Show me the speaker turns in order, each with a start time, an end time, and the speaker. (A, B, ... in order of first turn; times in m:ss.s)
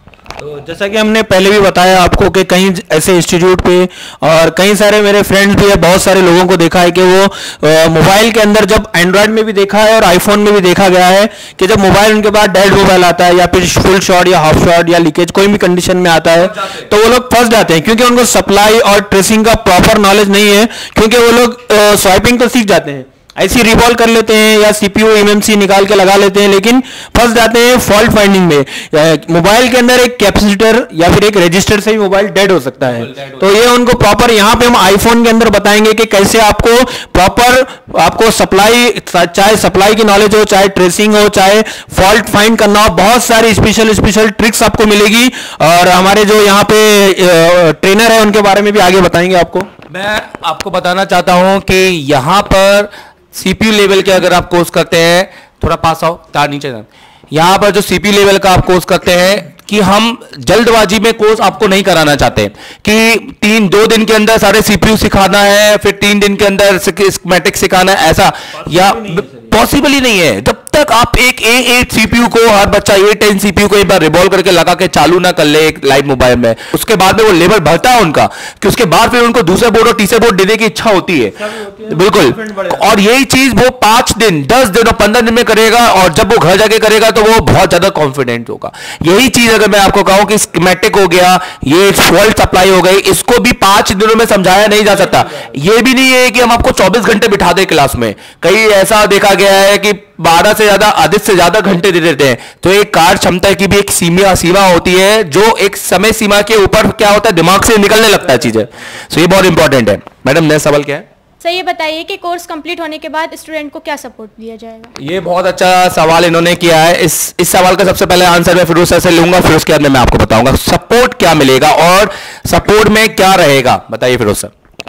0:00.4-0:49.7 A
0:16.4-0:16.9 B
0:32.8-0:33.5 B
0:49.9-1:21.4 B
1:08.5-1:09.5 A
1:21.3-1:23.0 A
1:21.9-1:51.1 B
1:51.4-1:54.9 C
1:55.0-2:04.5 B